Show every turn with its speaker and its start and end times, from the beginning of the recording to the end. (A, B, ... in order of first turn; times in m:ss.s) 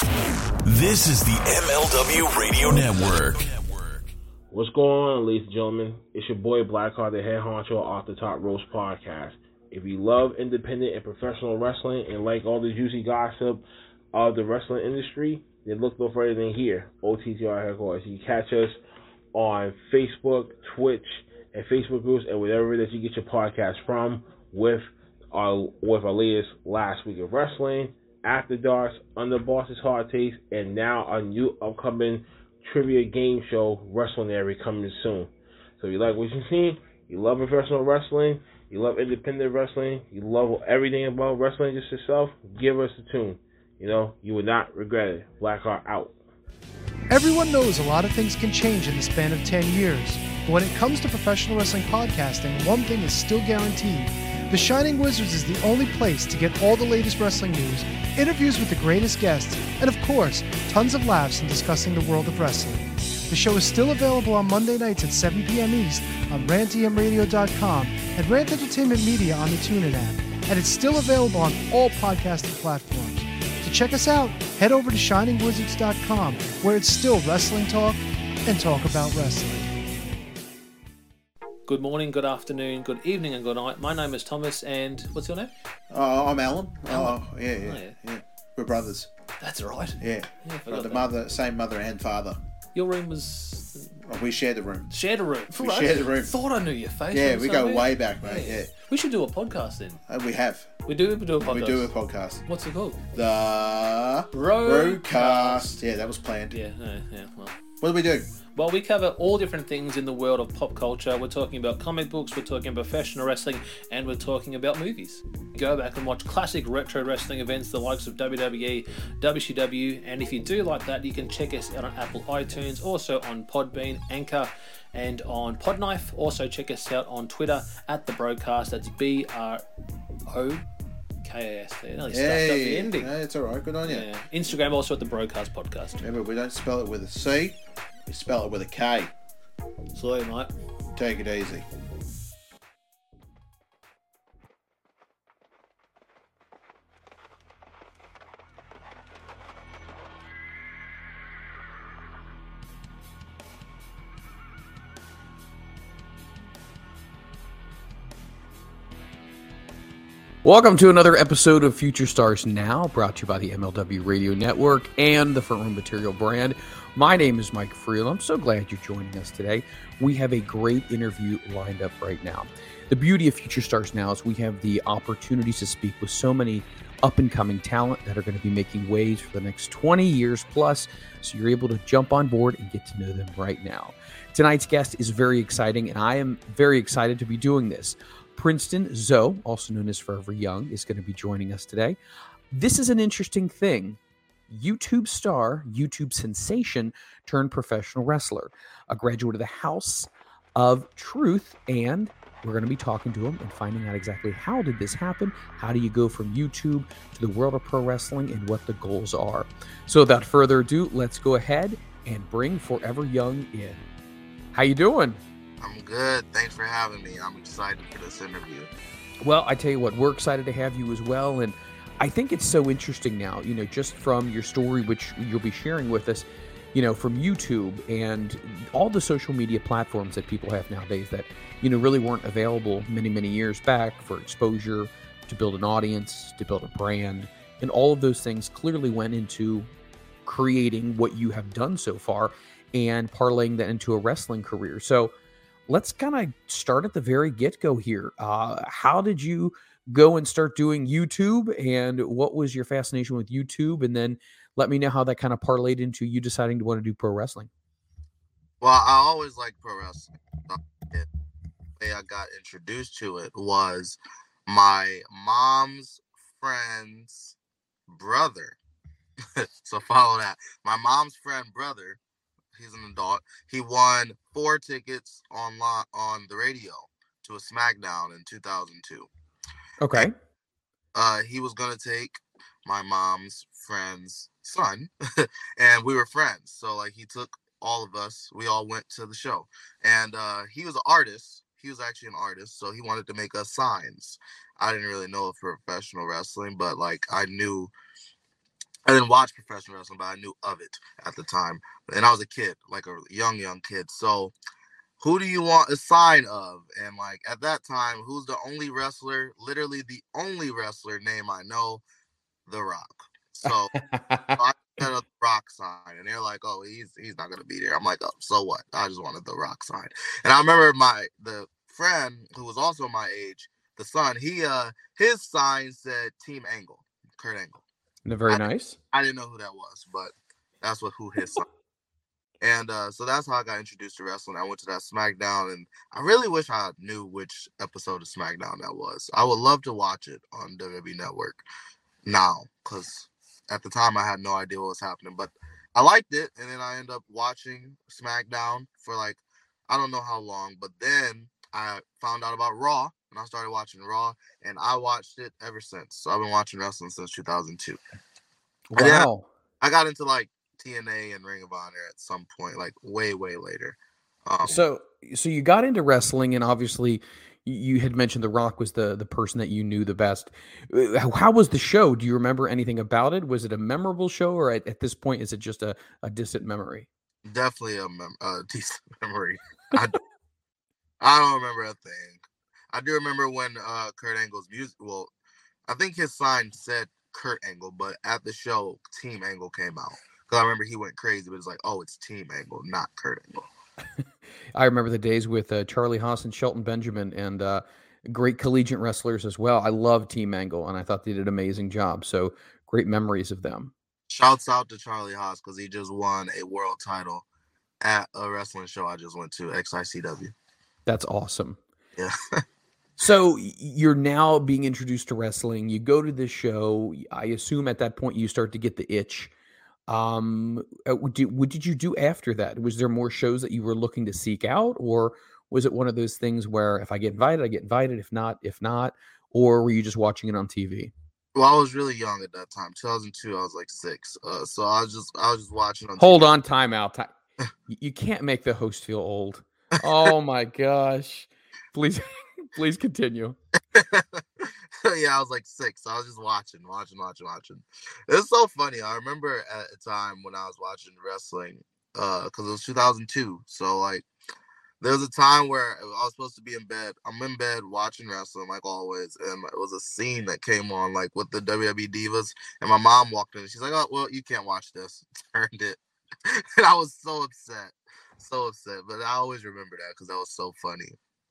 0:00.6-0:04.1 A
0:04.5-0:18.8 B
0:19.3-0:46.2 B
0:47.1-1:19.7 C
1:21.7-1:25.5 D
1:25.9-1:29.1 E
1:26.8-1:28.0 D
1:29.4-1:31.1 D
1:30.0-1:32.4 E
1:32.7-1:34.0 D
1:34.1-1:36.4 E
1:34.9-1:40.0 D
1:37.1-1:38.7 E
1:40.1-1:40.8 E
1:40.9-1:41.9 D
1:41.3-1:42.4 E
1:42.5-1:43.0 D
1:43.1-1:46.6 E
1:44.3-1:45.8 D
1:46.5-1:47.6 D
1:47.8-1:48.3 E
1:48.5-2:09.6 D
2:10.3-2:10.6 D
2:11.2-2:13.2 D
2:12.1-2:14.1 E
2:13.8-2:16.0 D
2:16.0-2:19.1 E
2:20.0-2:20.5 D
2:20.9-2:21.7 E
2:40.4-3:12.0 F
3:12.5-3:33.8 F
3:34.5-3:35.2 F
3:35.6-3:38.7 G
3:39.2-3:59.7 F
4:00.3-4:05.1 F
4:05.7-4:17.5 F
4:18.6-4:21.1 G
4:21.8-4:27.4 G
4:27.9-4:28.6 G
4:29.4-4:32.0 G
4:32.5-4:39.1 G
4:39.8-4:40.1 F
4:40.9-4:57.7 G
4:58.9-5:04.3 G
5:05.0-5:11.8 G
5:12.5-5:13.7 G
5:13.5-5:14.4 F
5:14.4-5:27.6 G
5:28.1-5:28.8 F
5:28.3-5:31.5 G
5:32.4-5:41.4 G
5:42.0-5:57.8 G
5:58.7-5:59.3 F
5:58.8-5:59.1 G
5:59.6-6:04.6 G
6:04.4-6:16.9 F
6:17.2-6:20.0 G
6:21.0-6:25.1 G
6:25.7-6:33.5 G
6:34.6-6:43.7 F
6:44.1-6:47.2 G
6:47.8-6:50.3 G
6:50.9-6:51.6 F
6:52.0-6:52.4 G
6:53.0-6:59.3 F
6:59.9-7:10.9 F
7:11.4-7:16.3 G
7:16.0-7:17.1 F
7:17.7-7:23.4 F
7:23.7-7:34.1 G
7:34.8-7:51.0 G